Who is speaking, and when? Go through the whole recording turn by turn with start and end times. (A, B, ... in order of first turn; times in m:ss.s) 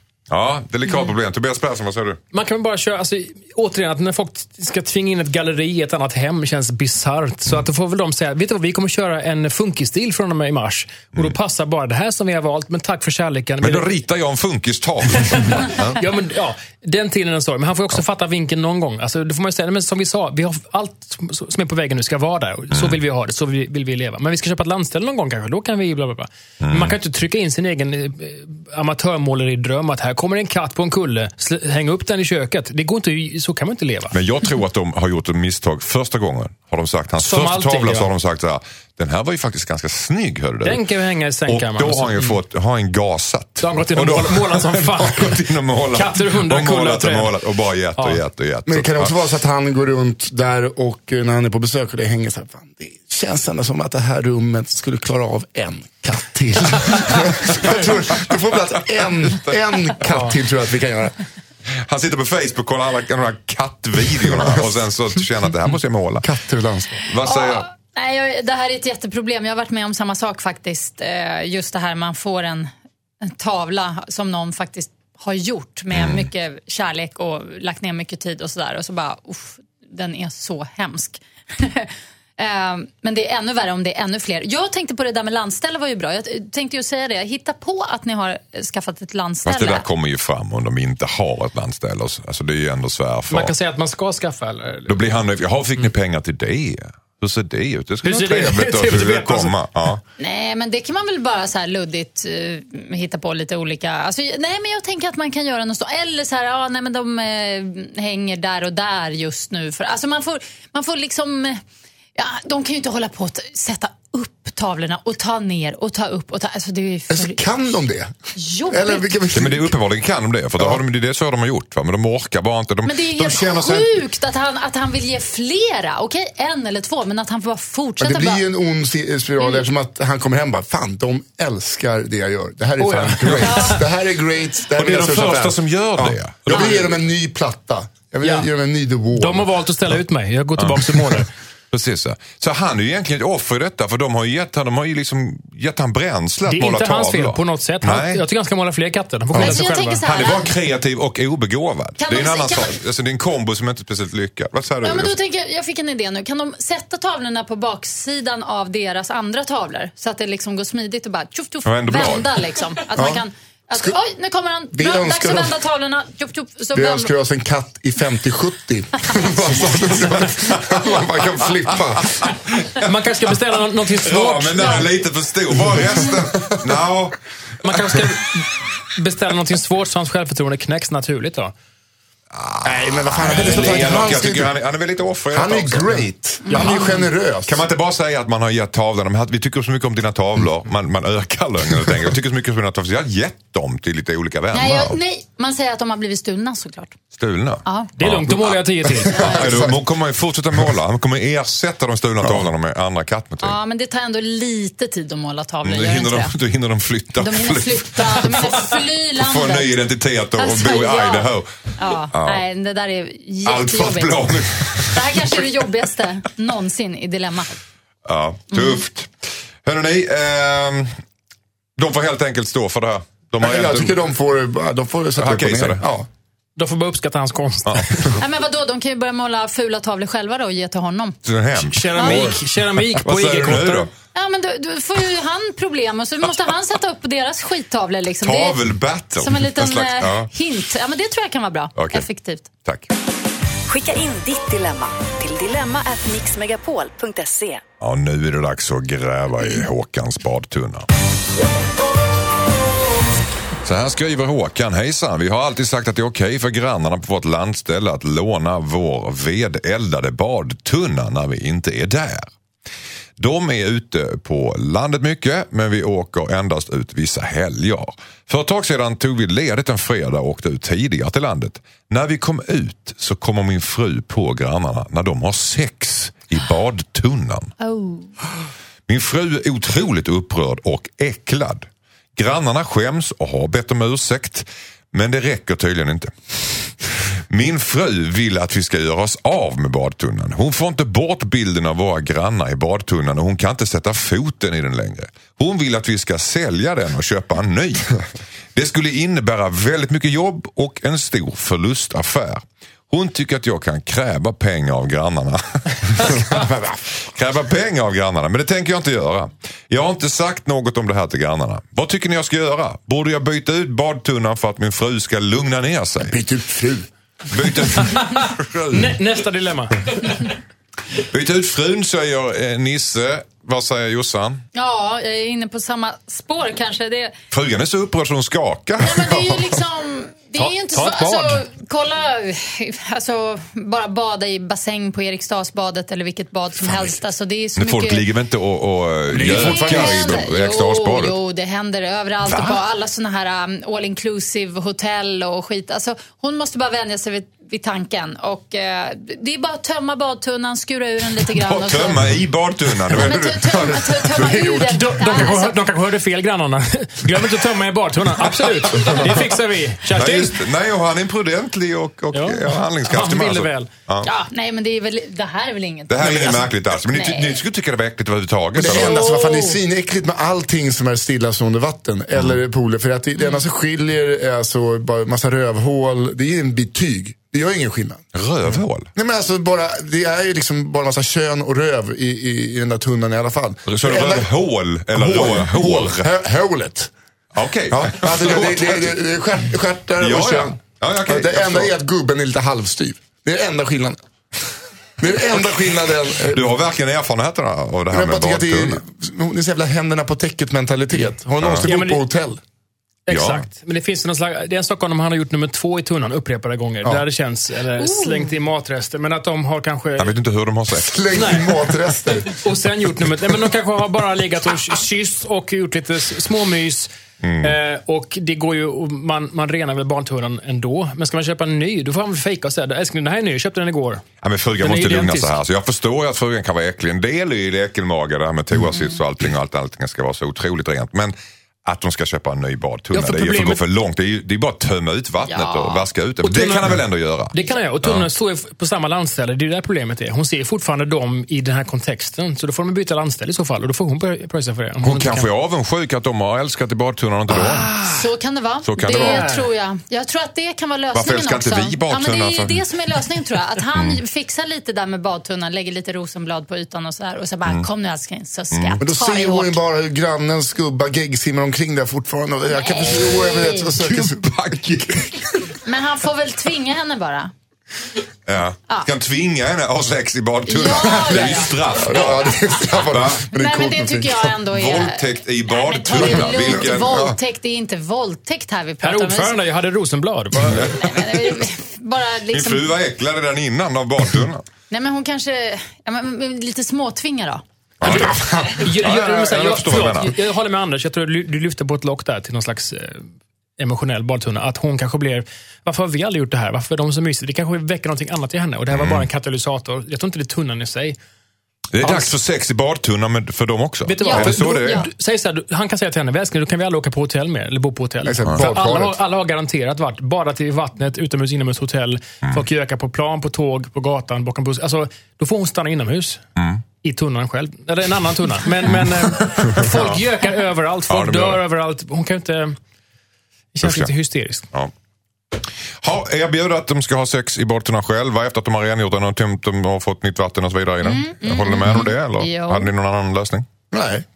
0:00.3-0:02.2 A
0:02.3-0:13.9 B
0:13.6-0:16.0 A
0:15.2-0:34.2 B
0:22.7-0:23.0 A
0:26.6-0:27.0 A
0:34.1-0:40.8 A
0:37.2-0:38.1 B
0:40.6-0:42.4 B
0:41.5-0:49.1 A
0:43.6-0:47.4 B
0:48.7-1:01.2 C
1:00.0-1:00.4 B
1:01.8-1:06.3 A
1:06.2-1:07.0 C
1:07.0-1:07.7 A
1:07.2-1:12.7 D
1:13.2-1:29.8 D
1:15.9-1:16.3 A
1:29.5-1:33.5 A
1:33.3-1:35.2 B
1:34.9-1:40.0 A
1:38.0-1:39.6 B
1:40.2-1:51.6 D
1:52.2-1:57.4 D
1:57.1-1:58.1 C
1:58.4-1:59.2 D
1:58.7-1:59.8 C
1:59.3-2:04.0 A
2:02.8-2:08.4 D
2:08.0-2:19.5 C
2:12.8-2:13.8 B
2:14.8-2:16.7 A
2:18.2-2:18.5 B
2:19.2-2:21.3 B
2:20.6-2:28.2 A
2:26.5-2:30.0 B
2:29.3-2:35.1 A
2:29.4-2:30.5 D
2:32.0-2:32.7 D
2:34.8-2:47.1 D
2:41.6-2:42.4 A
2:43.0-2:43.2 C
2:44.7-2:45.6 C
2:46.7-2:52.4 C
2:49.9-2:51.4 A
2:52.0-2:52.9 A
2:52.8-2:54.9 B
2:54.0-2:58.1 A
2:56.0-2:56.8 C
2:57.6-3:01.5 B
3:02.3-3:06.1 A
3:02.6-3:04.5 C
3:05.3-3:07.6 C
3:06.5-3:07.0 D
3:06.5-3:06.9 B
3:07.5-3:15.0 A
3:14.5-3:17.0 D
3:17.1-3:23.6 A
3:17.6-3:17.9 D
3:18.0-3:19.4 B
3:19.0-3:19.8 C
3:23.4-3:26.3 D
3:25.6-3:32.4 A
3:27.2-3:29.7 D
3:30.4-3:34.2 D
3:33.4-3:35.5 A
3:34.8-3:37.6 D
3:38.0-3:40.9 A
3:38.5-3:38.8 D
3:41.8-3:44.0 A
3:43.4-3:46.1 C
3:45.2-3:45.8 A
3:46.6-3:48.2 B
3:47.6-3:48.1 A
3:48.2-3:51.2 D
3:51.2-3:52.4 A
3:51.6-3:53.9 B
3:52.0-3:52.3 D
3:52.9-3:53.9 A
3:54.1-3:58.6 D
3:58.2-4:00.3 A
3:59.2-4:02.5 D
4:01.8-4:02.1 A
4:03.7-4:07.6 E
4:07.8-4:10.9 A
4:13.6-4:22.3 A
4:23.2-4:37.5 A
4:37.6-4:38.1 D
4:38.9-4:46.8 A
4:47.3-4:58.0 A
4:58.6-5:06.4 A
5:06.0-5:06.8 C
5:07.1-5:16.2 A
5:16.0-5:16.9 C
5:17.3-5:19.0 A
5:17.8-5:20.3 B
5:21.1-5:24.4 A
5:24.5-5:27.2 D
5:27.3-5:29.5 A
5:28.8-5:38.1 D
5:30.4-5:31.4 B
5:36.6-5:37.0 C
5:37.6-5:41.2 A
5:39.1-5:40.2 C
5:39.2-5:52.2 D
5:42.3-5:42.6 A
5:51.4-5:54.0 A
5:53.0-5:55.6 D
5:53.5-5:54.9 C
5:54.7-6:00.4 B
5:58.2-5:59.2 A
5:59.9-6:04.1 A
6:02.1-6:03.7 B
6:04.0-6:07.4 D
6:05.9-6:09.0 A
6:08.6-6:18.0 C
6:08.6-6:09.6 D
6:18.1-6:18.9 A
6:19.0-6:24.3 C
6:23.7-6:26.1 A
6:24.9-6:26.9 C
6:27.4-6:29.0 A
6:27.7-6:34.0 C
6:30.0-6:31.7 A
6:35.0-6:36.5 C
6:36.2-6:38.8 A
6:37.9-6:42.4 C
6:41.4-6:41.7 A
6:41.7-6:42.0 B
6:43.1-6:50.1 B
6:43.1-6:43.5 A
6:47.8-6:48.4 D
6:50.0-6:51.0 A
6:50.8-6:52.4 C
6:51.1-7:04.0 B
6:57.2-6:57.6 A
7:04.2-7:18.1 A
7:04.6-7:05.4 B
7:12.9-7:13.6 B
7:15.2-7:15.9 D
7:16.2-7:25.3 B
7:24.8-7:27.7 A
7:27.3-7:28.1 B
7:27.9-7:39.6 D
7:28.6-7:29.3 A
7:28.9-7:29.5 B
7:30.9-7:32.6 A
7:33.8-7:34.0 A
7:38.5-7:38.8 A
7:38.8-7:45.2 C
7:42.5-7:43.7 D
7:43.8-7:44.8 A
7:45.6-7:47.3 D
7:48.3-7:53.3 A
7:50.5-7:51.5 D
7:51.6-7:54.4 C
7:53.3-7:59.4 D
7:54.5-7:57.2 A
7:56.6-7:56.9 C
7:58.8-8:00.8 B
8:00.5-8:00.8 A
8:00.6-8:02.7 D
8:02.3-8:04.5 A
8:04.7-8:07.4 D
8:07.8-8:10.2 A
8:07.8-8:08.8 C
8:08.6-8:13.0 B
8:13.6-8:21.0 B
8:18.7-8:19.1 A
8:21.7-8:24.8 A
8:21.8-8:22.1 B
8:23.9-8:36.2 B
8:24.0-8:24.9 D
8:28.0-8:29.0 C
8:36.4-8:36.6 A
8:36.8-8:42.6 B
8:39.4-8:40.0 A
8:40.9-8:41.4 A
8:43.6-8:44.5 B
8:43.6-8:43.9 A
8:45.8-8:53.5 A
8:50.8-8:52.7 D
8:53.7-8:54.1 C